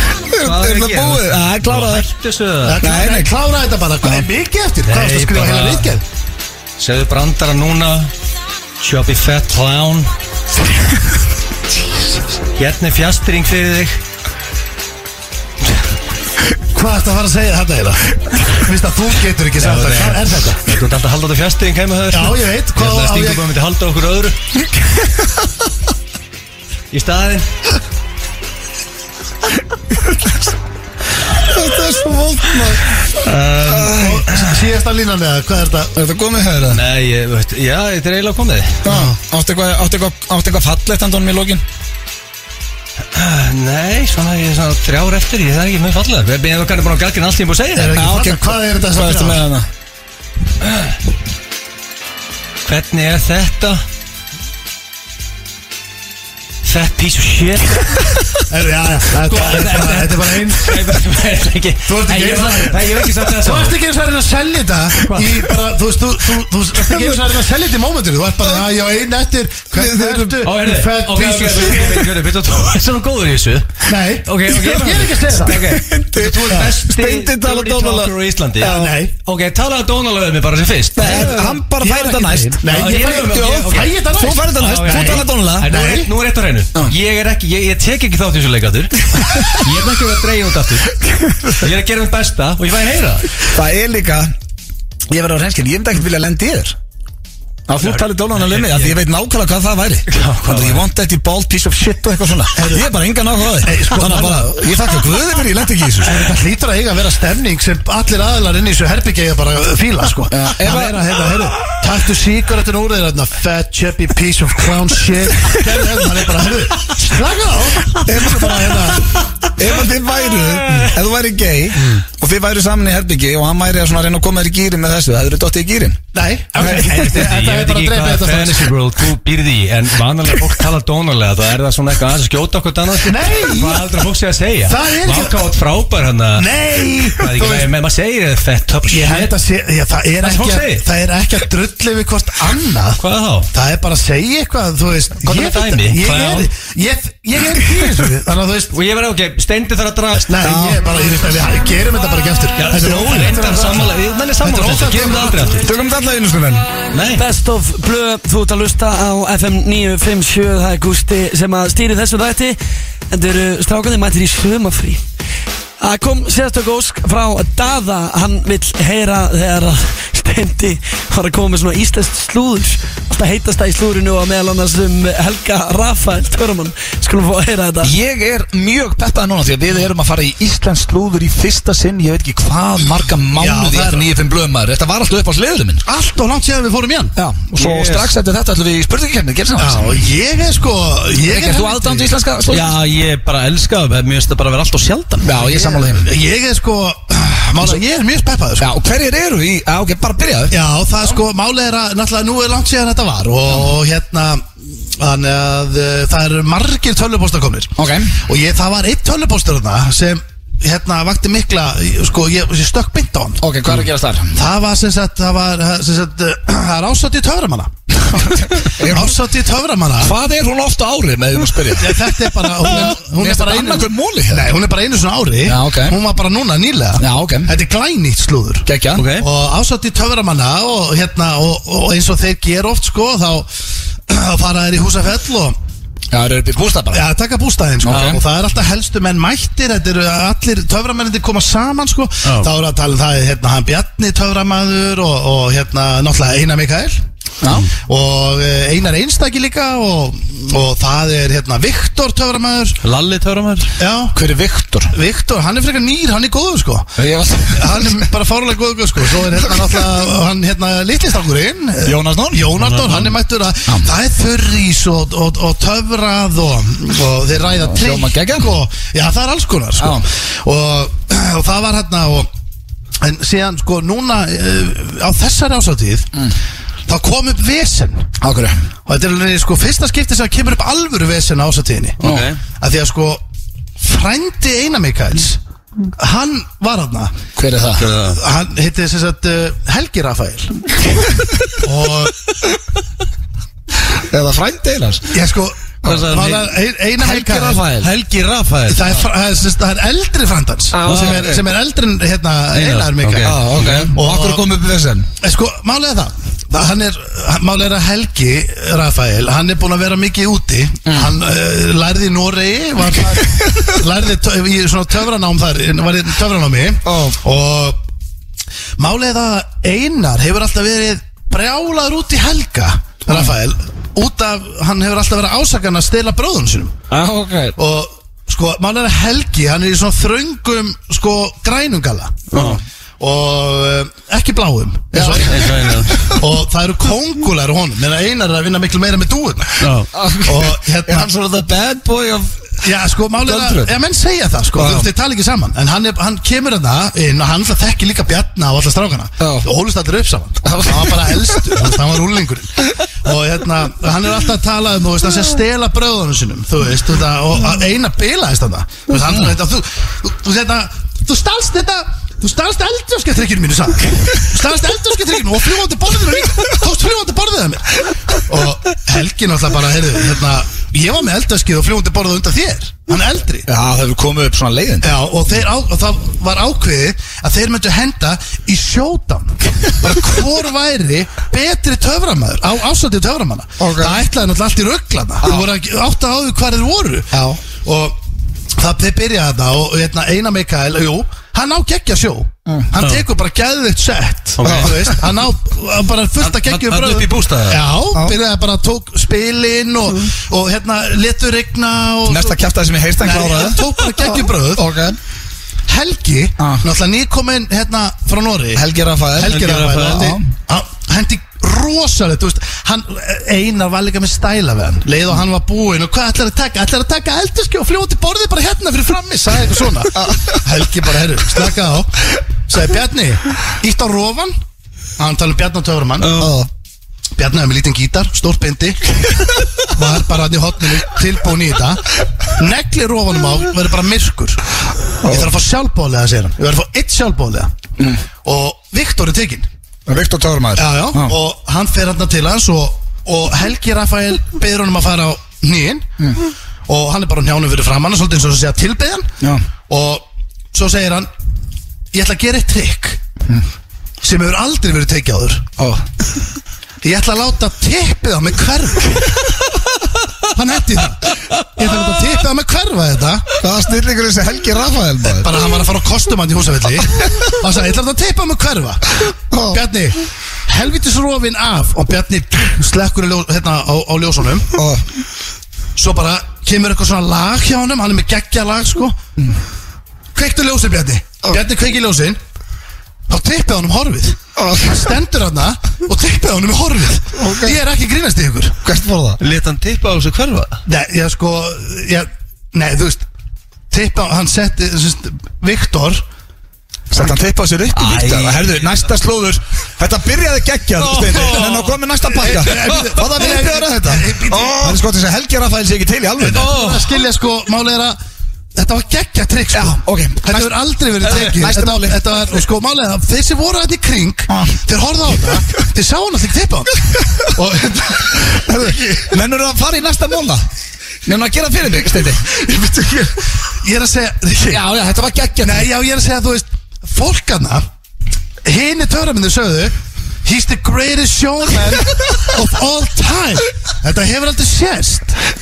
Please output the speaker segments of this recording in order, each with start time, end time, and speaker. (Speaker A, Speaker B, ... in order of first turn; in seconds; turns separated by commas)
Speaker A: 0.3-2.1, Speaker B: 0.4-2.9, Speaker C: 2.6-6.0, Speaker A: 2.8-3.4, Speaker A: 4.0-4.3, Speaker B: 4.9-6.0, Speaker B: 6.8-8.1, Speaker B: 8.8-10.1, Speaker B: 12.6-14.0, Speaker C: 16.7-20.8, Speaker B: 19.6-24.4, Speaker C: 22.1-23.5, Speaker B: 26.9-27.5, Speaker A: 31.4-32.9, Speaker B: 33.1-34.0, Speaker A: 33.6-34.2, Speaker C: 33.9-35.9, Speaker A: 36.0-36.8, Speaker B: 36.7-38.8, Speaker A: 38.8-41.6, Speaker C: 38.9-39.1, Speaker B: 43.1-48.0, Speaker C: 47.7-49.4, Speaker A: 47.9-49.7, Speaker B: 50.6-50.9, Speaker B: 52.6-53.8, Speaker B: 56.6-58.1, Speaker C: 58.5-61.0, Speaker B: 59.2-63.8, Speaker C: 61.9-72.1, Speaker B: 65.1-65.5, Speaker A: 66.8-67.3, Speaker A: 69.7-70.4, Speaker B: 70.4-81.6, Speaker C: 73.9-75.7, Speaker A: 75.5-79.0, Speaker C: 78.7-79.1, Speaker A: 81.0-85.7, Speaker C: 81.0-86.1, Speaker B: 82.6-83.9, Speaker B: 84.5-90.9, Speaker A: 91.1-91.6, Speaker B: 91.5-93.3, Speaker A: 93.5-94.3, Speaker A: 95.1-96.8, Speaker A: 97.7-106.3, Speaker B: 97.8-99.0, Speaker B: 100.1-100.8, Speaker C: 102.6-102.9, Speaker C: 103.6-104.7, Speaker C: 106.0-119.2, Speaker A: 110.3-111.0, Speaker A: 118.0-119.0, Speaker A: 119.6-126.0, Speaker C: 126.1-128.7, Speaker B: 126.6-136.5, Speaker C: 133.0-134.0, Speaker C: 134.7-135.5, Speaker C: 136.4-137.7, Speaker B: 137.1-139.3, Speaker C: 138.9-148.7, Speaker B: 140.2-140.9, Speaker B: 143.0-143.5, Speaker B: 145.2-146.5, Speaker B: 148.7-150.6, Speaker C: 150.3-155.6, Speaker A: 150.4-150.8, Speaker B: 152.6-155.7, Speaker A: 155.6-156.7, Speaker B: 156.9-157.2, Speaker D: 157.1-162.6, Speaker D: 163.1-165.0, Speaker D: 165.8-177.9, Speaker A: 177.8-185.8, Speaker C: 183.4-184.1, Speaker C: 185.8-187.1, Speaker A: 187.2-190.0, Speaker B: 187.6-188.1, Speaker C: 189.6-192.1, Speaker A: 191.2-192.7, Speaker B: 192.5-195.4, Speaker A: 195.2-196.1, Speaker C: 195.4-198.7, Speaker A: 198.6-200.6, Speaker C: 200.5-220.1, Speaker A: 207.8-208.1, Speaker A: 213.4-214.3, Speaker A: 218.1-219.2, Speaker A: 220.0-224.5, Speaker C: 221.8-233.5, Speaker A: 225.4-226.0, Speaker A: 227.0-227.5, Speaker A: 228.7-229.1, Speaker B: 228.9-229.3, Speaker C: 234.1-235.6, Speaker A: 236.1-237.1, Speaker C: 236.9-247.0, Speaker A: 237.8-238.2, Speaker B: 237.9-238.2, Speaker A: 247.4-247.7, Speaker C: 247.7-252.8, Speaker B: 252.8-253.7, Speaker C: 253.8-254.2, Speaker A: 254.1-254.9, Speaker C: 254.9-256.9, Speaker A: 257.0-258.1, Speaker C: 257.5-272.3, Speaker A: 259.4-259.8, Speaker A: 261.8-263.1, Speaker A: 263.7-263.9, Speaker A: 267.6-268.6, Speaker A: 269.8-270.1, Speaker C: 273.0-276.1, Speaker C: 276.9-278.1, Speaker A: 278.2-278.7, Speaker C: 278.9-283.2, Speaker A: 282.0-282.3, Speaker B: 282.1-282.4, Speaker C: 283.8-285.4, Speaker C: 286.0-287.1, Speaker A: 287.4-287.9, Speaker C: 288.0-290.7, Speaker C: 291.6-292.2, Speaker A: 293.9-295.1, Speaker C: 295.1-297.7, Speaker B: 295.8-296.4, Speaker A: 295.9-296.2, Speaker A: 297.0-297.9, Speaker B: 297.8-298.8, Speaker C: 298.7-304.5, Speaker B: 300.8-301.3, Speaker A: 300.8-301.4, Speaker B: 302.5-303.9, Speaker A: 303.2-305.1, Speaker C: 305.2-317.8, Speaker A: 310.9-311.1, Speaker A: 316.9-317.2, Speaker C: 318.8-326.8, Speaker A: 326.9-327.6, Speaker C: 327.6-332.4, Speaker C: 333.0-341.1, Speaker A: 334.9-335.9, Speaker B: 335.3-335.9, Speaker A: 339.9-342.5, Speaker C: 342.6-373.5, Speaker A: 343.2-343.8, Speaker A: 344.6-344.9, Speaker A: 349.2-349.5, Speaker A: 350.4-351.6, Speaker A: 373.5-374.9, Speaker C: 374.8-387.1, Speaker A: 383.6-384.0, Speaker A: 385.2-385.5, Speaker A: 387.1-387.4, Speaker C: 387.6-388.0, Speaker C: 388.6-402.4, Speaker A: 392.5-392.7, Speaker A: 394.4-395.0, Speaker B: 396.2-397.6, Speaker A: 402.1-405.0, Speaker C: 403.0-404.6, Speaker C: 405.7-408.6, Speaker A: 406.4-406.7, Speaker A: 408.6-410.2, Speaker C: 409.1-424.4, Speaker B: 409.3-410.0, Speaker A: 419.9-420.4, Speaker C: 425.0-426.3, Speaker A: 426.0-426.5, Speaker C: 427.2-437.5, Speaker A: 435.0-435.3, Speaker C: 438.2-439.5, Speaker A: 439.9-441.2, Speaker C: 440.6-445.9, Speaker C: 446.7-449.1, Speaker A: 449.2-449.5, Speaker C: 449.7-451.1, Speaker C: 451.9-453.0, Speaker C: 454.0-455.5, Speaker A: 455.6-455.9, Speaker C: 456.8-459.3, Speaker C: 460.3-463.3, Speaker A: 463.4-465.4, Speaker C: 465.0-474.5, Speaker A: 469.3-469.6, Speaker A: 474.5-474.9, Speaker C: 475.8-479.0, Speaker C: 480.1-482.2, Speaker C: 483.1-488.6, Speaker A: 484.4-485.0, Speaker A: 487.1-487.6, Speaker A: 488.6-489.2, Speaker B: 489.3-490.5, Speaker C: 490.7-493.1, Speaker C: 493.7-496.0, Speaker A: 496.9-506.6, Speaker B: 497.8-498.6, Speaker B: 500.8-501.7, Speaker C: 502.2-504.8, Speaker C: 506.2-508.0, Speaker B: 506.4-506.9, Speaker C: 508.6-518.5, Speaker A: 509.5-512.5, Speaker A: 514.3-514.6, Speaker A: 518.1-520.5, Speaker A: 521.1-523.2, Speaker C: 523.6-524.6, Speaker A: 524.4-525.7, Speaker C: 525.4-527.6, Speaker C: 528.5-535.2